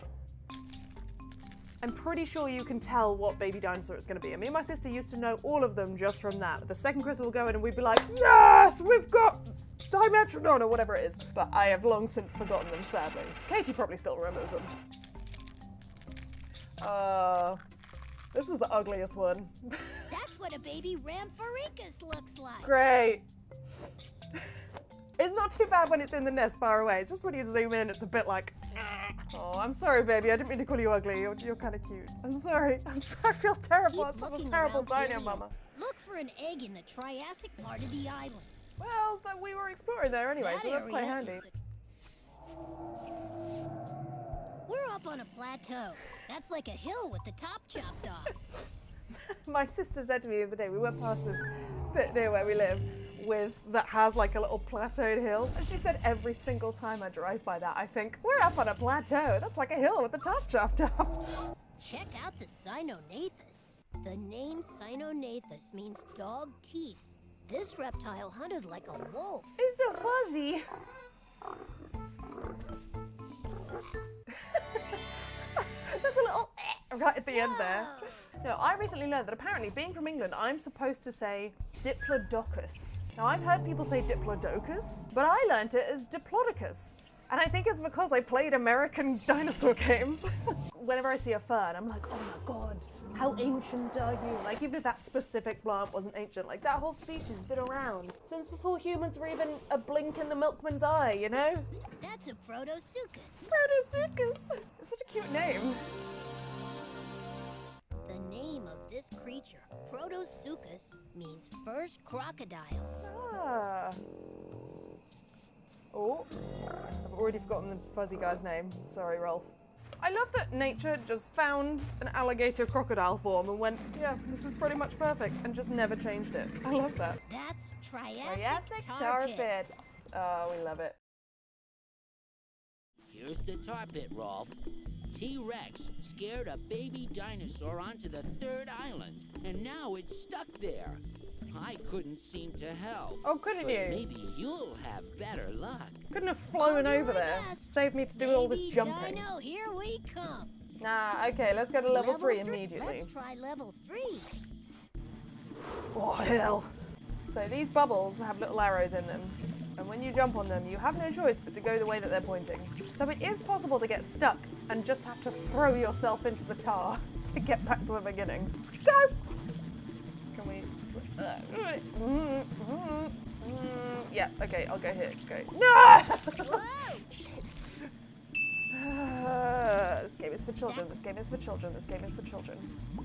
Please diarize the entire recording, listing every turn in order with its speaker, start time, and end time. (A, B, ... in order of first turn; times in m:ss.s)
0:01.8-0:14.7 A
0:16.8-0:17.6 A
0:18.3-0:20.1 A
0:20.1-0:22.8 B
0:22.6-0:23.2 A
0:25.2-0:35.5 A
0:33.9-0:38.5 B
0:38.8-0:41.4 A
0:40.4-0:41.5 B
0:44.7-0:48.4 B
0:49.2-1:01.5 A
1:01.8-1:09.6 B
1:09.6-1:10.6 A
1:14.3-1:41.7 A
1:17.3-1:18.3 B
1:42.0-1:43.6 B
1:43.4-1:45.8 A
1:48.0-1:52.9 B
1:53.0-1:54.0 A
1:55.9-2:07.2 A
2:07.2-2:09.8 B
2:08.2-2:11.0 A
2:13.1-2:14.6 C
2:15.1-2:26.0 C
2:23.2-2:24.1 A
2:26.1-2:29.2 A
2:26.6-2:30.5 B
2:30.8-2:33.1 A
2:31.9-2:34.4 B
2:35.9-2:36.7 A
2:37.3-2:49.2 A
2:50.3-2:57.9 A
2:56.4-2:57.1 B
2:58.7-3:02.7 A